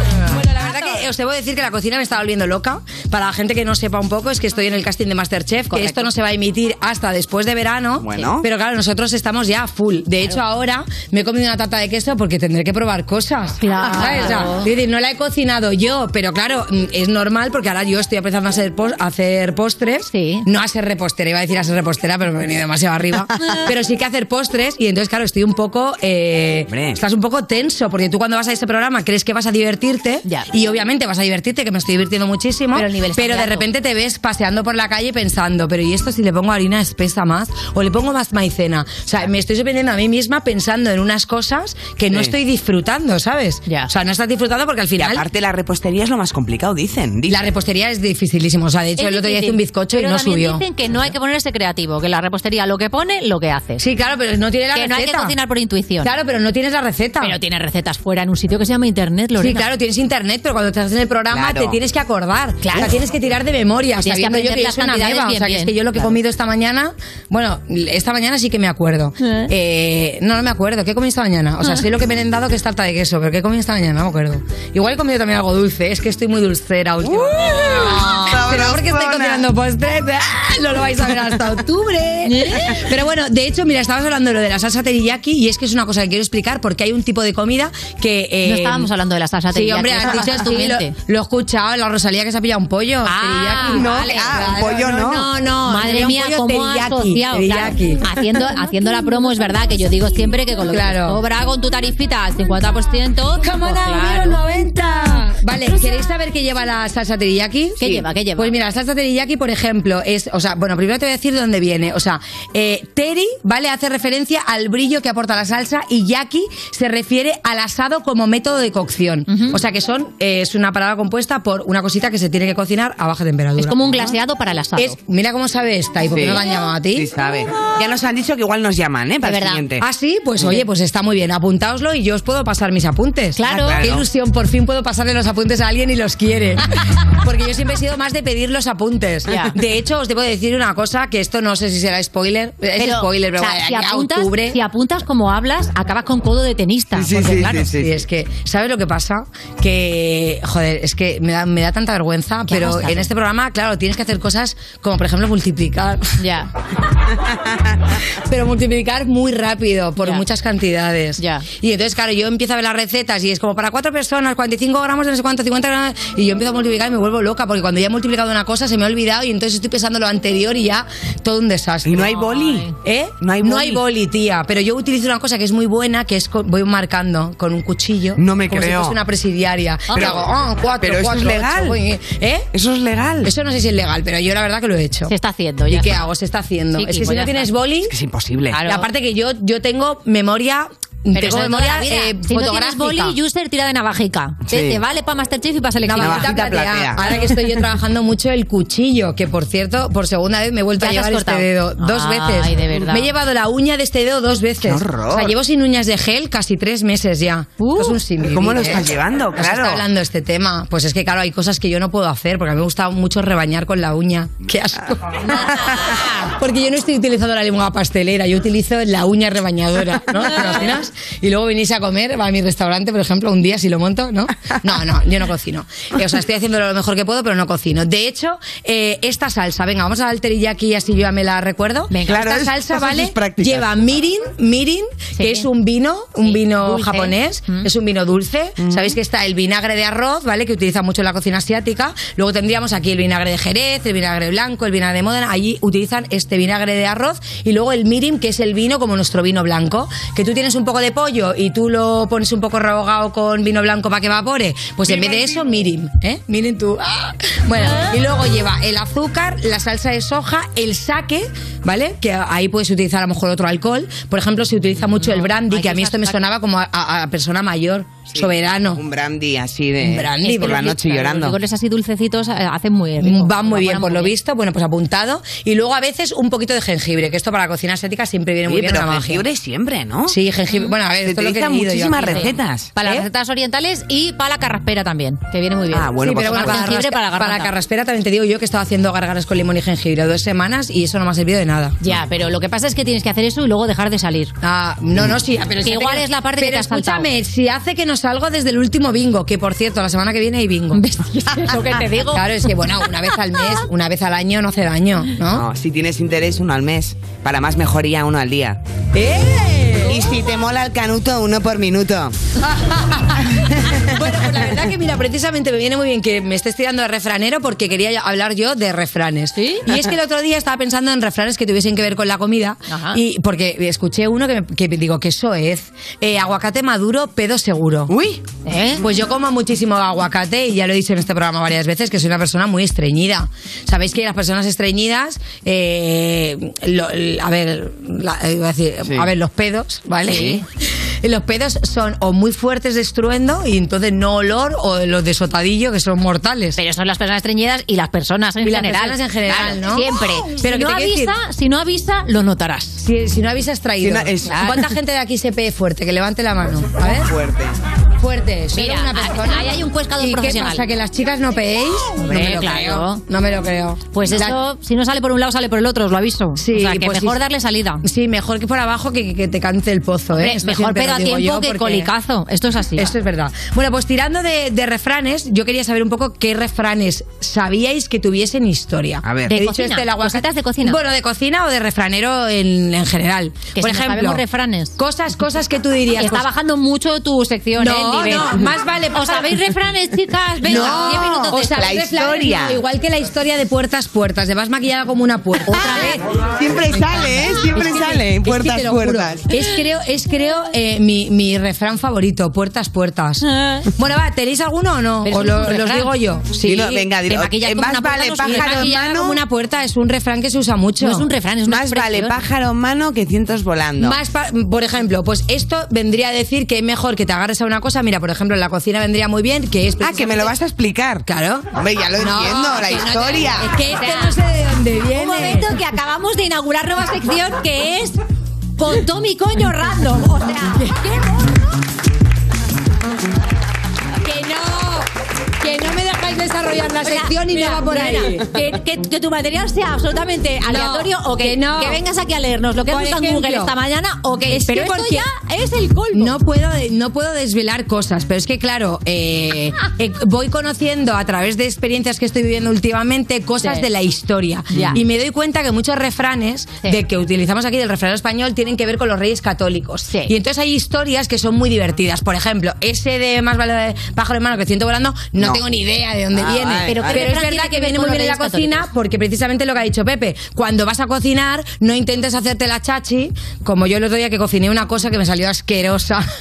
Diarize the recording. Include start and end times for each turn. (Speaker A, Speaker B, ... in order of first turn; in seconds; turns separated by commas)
Speaker A: 0.3-45.2, Speaker B: 0.3-1.1, Speaker B: 5.7-6.1, Speaker C: 8.0-8.5, Speaker B: 13.6-14.7, Speaker B: 20.1-20.4, Speaker C: 26.7-27.0, Speaker B: 32.8-33.7, Speaker C: 45.0-47.5, Speaker A: 47.3-50.6, Speaker B: 49.0-53.8, Speaker A: 53.8-55.3, Speaker B: 54.7-56.1, Speaker A: 56.0-57.4, Speaker B: 57.2-59.6, Speaker A: 59.4-88.9, Speaker C: 61.3-61.8, Speaker B: 62.6-62.9, Speaker B: 64.0-66.1, Speaker B: 69.2-69.5, Speaker C: 77.1-79.5, Speaker B: 82.3-82.8, Speaker B: 88.4-90.9, Speaker A: 89.5-98.1, Speaker B: 93.1-104.4, Speaker C: 93.7-95.3, Speaker A: 100.7-101.2, Speaker A: 103.4-124.1, Speaker B: 107.8-108.5, Speaker B: 119.3-119.6, Speaker B: 123.6-125.0, Speaker A: 124.8-127.1, Speaker C: 126.1-126.4, Speaker C: 126.9-129.8, Speaker B: 129.2-129.6, Speaker A: 129.8-136.7, Speaker B: 133.4-133.9, Speaker C: 133.4-134.1, Speaker A: 137.2-144.6, Speaker B: 139.3-139.5, Speaker B: 142.8-147.7, Speaker C: 146.9-147.9, Speaker A: 147.1-156.1, Speaker B: 152.5-153.1, Speaker B: 156.2-156.5, Speaker A: 158.3-172.1, Speaker B: 161.2-161.4, Speaker C: 171.8-173.8, Speaker B: 172.0-172.7, Speaker A: 172.8-182.5, Speaker C: 178.2-179.0, Speaker B: 179.9-180.2, Speaker C: 179.9-181.8, Speaker C: 182.5-183.3, Speaker A: 183.2-185.1, Speaker B: 185.1-186.0, Speaker A: 185.7-187.9, Speaker B: 186.8-187.5, Speaker C: 187.9-188.6, Speaker B: 188.5-188.9, Speaker A: 188.7-193.2, Speaker B: 191.1-196.5, Speaker C: 194.5-194.8, Speaker A: 195.9-215.2, Speaker C: 196.0-197.2, Speaker B: 200.8-203.1, Speaker C: 204.6-205.3, Speaker B: 207.6-208.0, Speaker C: 208.2-209.8, Speaker B: 215.2-216.2, Speaker A: 216.3-268.8, Speaker B: 231.9-232.2, Speaker C: 232.1-233.8, Speaker B: 235.2-235.5, Speaker B: 236.2-237.7, Speaker C: 238.6-238.9, Speaker B: 265.0-266.2, Speaker C: 268.1-271.4, Speaker A: 269.8-270.7, Speaker B: 270.2-274.1, Speaker A: 273.0-279.2, Speaker C: 278.5-280.2, Speaker A: 280.1-283.1, Speaker C: 281.0-282.7, Speaker B: 282.0-287.5, Speaker C: 285.7-286.7, Speaker A: 286.0-291.8, Speaker B: 291.8-294.3, Speaker A: 294.4-300.9, Speaker B: 295.6-297.1, Speaker B: 300.8-302.3, Speaker A: 302.1-305.4, Speaker C: 305.3-308.6, Speaker A: 308.9-310.0, Speaker C: 309.9-312.1, Speaker A: 312.6-313.2, Speaker C: 313.5-313.7, Speaker A: 313.9-328.0, Speaker B: 319.4-319.6, Speaker B: 322.7-323.0, Speaker C: 327.9-328.2, Speaker B: 328.4-328.8, Speaker A: 328.8-340.5, Speaker C: 338.8-339.1, Speaker C: 340.1-340.4, Speaker A: 341.0-346.6, Speaker B: 346.6-352.8, Speaker A: 348.4-351.1, Speaker A: 352.8-357.1, Speaker C: 353.8-354.6, Speaker B: 354.3-354.6, Speaker C: 356.8-357.6, Speaker A: 358.0-364.4, Speaker B: 358.5-360.6, Speaker B: 362.0-363.0, Speaker B: 363.9-367.8, Speaker A: 366.4-367.2, Speaker A: 367.8-371.9, Speaker B: 370.2-372.9, Speaker A: 372.8-384.2, Speaker C: 379.0-379.4, Speaker B: 379.3-380.8, Speaker B: 383.6-384.8, Speaker A: 384.8-386.3, Speaker B: 386.0-391.7, Speaker A: 387.6-389.4, Speaker A: 390.4-396.0, Speaker C: 390.4-392.6, Speaker B: 395.5-396.0, Speaker C: 396.3-399.3, Speaker A: 396.7-403.2, Speaker B: 397.5-397.9, Speaker B: 403.2-403.7, Speaker A: 403.8-406.9, Speaker B: 405.1-405.9, Speaker C: 406.4-409.2, Speaker B: 407.0-408.9, Speaker A: 408.2-411.1, Speaker B: 410.8-412.2, Speaker C: 411.5-414.0, Speaker A: 413.8-420.3, Speaker C: 419.8-423.5, Speaker A: 421.1-421.5, Speaker A: 422.0-425.5, Speaker B: 422.6-424.2, Speaker B: 424.9-428.0, Speaker B: 428.6-431.4, Speaker A: 430.6-430.9, Speaker A: 434.0-434.9, Speaker A: 435.4-438.3, Speaker B: 436.8-446.1, Speaker A: 440.5-441.8, Speaker A: 442.7-443.5, Speaker A: 444.3-445.1, Speaker A: 445.9-476.0, Speaker B: 454.5-454.8, Speaker C: 466.1-467.1, Speaker B: 466.7-468.7